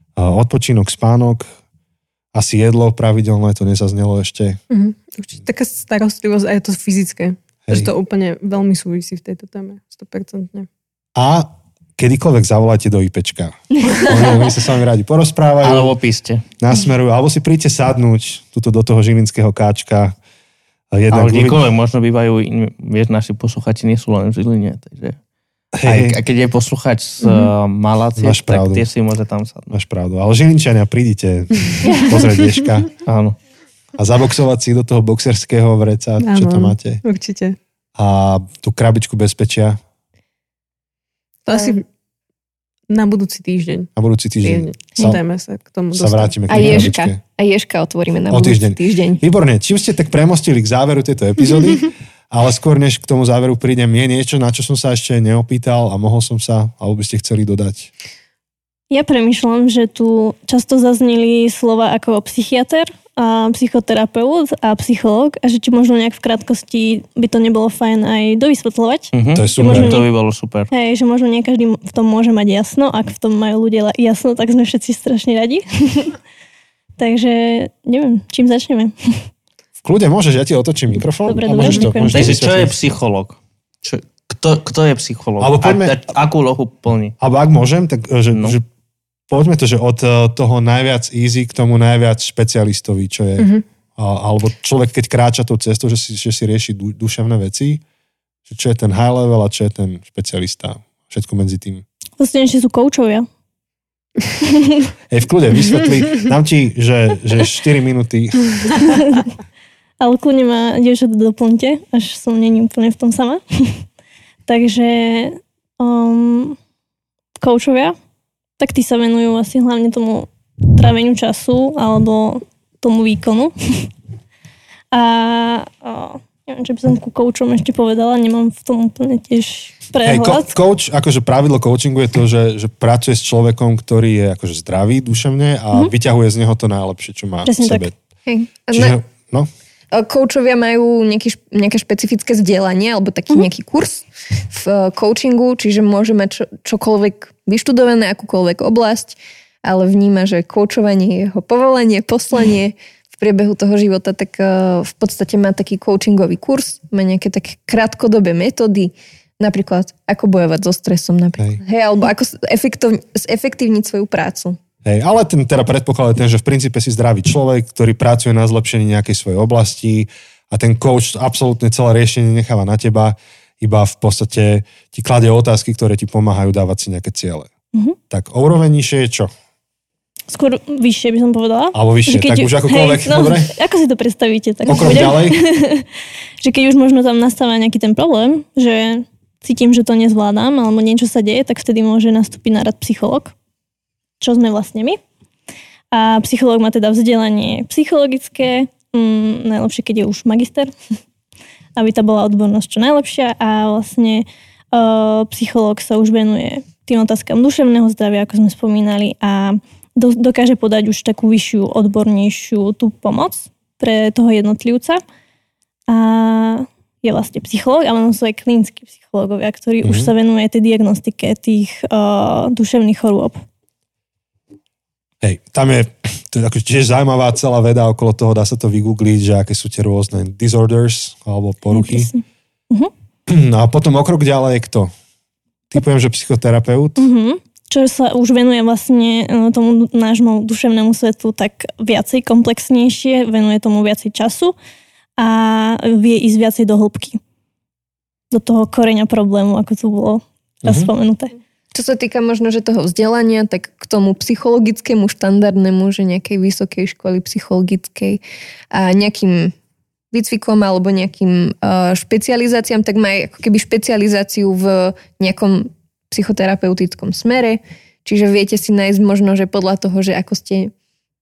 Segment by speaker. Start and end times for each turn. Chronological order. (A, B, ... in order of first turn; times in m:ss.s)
0:00.2-0:01.5 A
0:02.3-0:04.6 A
0:04.7-0:10.7 B
0:11.2-0:15.9 A
0:13.8-0:14.3 C
0:15.6-0:16.4 D
0:16.6-0:20.2 A
0:20.9-0:21.6 A
0:21.1-0:25.2 D
0:25.7-0:26.2 A
0:25.9-0:29.8 D
0:27.2-0:27.5 B
0:28.2-0:28.8 A
0:29.7-0:32.9 A
0:33.0-0:33.4 D
0:34.0-0:37.0 A
0:36.2-0:37.6 B
0:38.0-0:39.8 A
0:41.5-0:41.8 B
0:42.9-0:43.9 B
0:44.0-0:45.2 A
0:44.4-0:46.9 B
0:45.9-0:47.2 A
0:46.5-0:49.2 C
0:48.3-0:57.9 A
0:58.9-1:10.1 E
1:09.1-1:10.7 D
1:09.4-1:10.0 A
1:10.7-1:16.2 E
1:17.0-1:19.3 E
1:19.8-1:22.8 A
1:21.3-1:22.4 E
1:22.1-1:27.2 D
1:25.4-1:26.0 A
1:27.2-1:28.6 A
1:29.3-1:37.8 A
1:38.5-1:41.8 A
1:42.2-1:43.3 E
1:44.4-1:44.9 E
1:45.1-1:48.7 A
1:48.8-1:49.3 E
1:50.0-1:53.9 E
1:54.5-1:56.6 E
1:57.4-1:58.0 E
1:58.6-2:03.9 E
2:04.9-2:10.5 E
2:10.0-2:17.9 A
2:17.4-2:17.9 E
2:18.3-2:19.0 C
2:18.7-2:19.5 A
2:19.9-2:44.6 C
2:44.8-2:57.5 A
2:58.1-2:59.3 A
3:00.3-3:05.9 E
3:01.7-3:03.6 A
3:04.7-3:05.4 A
3:06.4-3:13.3 E
3:14.2-3:15.0 E
3:15.9-3:20.7 E
3:21.8-3:35.0 E
3:35.9-3:43.4 E
3:39.8-3:40.1 A
3:45.2-3:52.1 A
3:51.7-3:52.9 E
3:53.3-3:54.9 A
3:55.7-3:57.1 A
3:57.0-4:04.6 E
4:05.2-4:07.2 E
4:08.3-4:11.4 E
4:10.6-4:10.9 A
4:11.7-4:18.2 C
4:18.7-4:19.6 C
4:20.1-4:30.7 C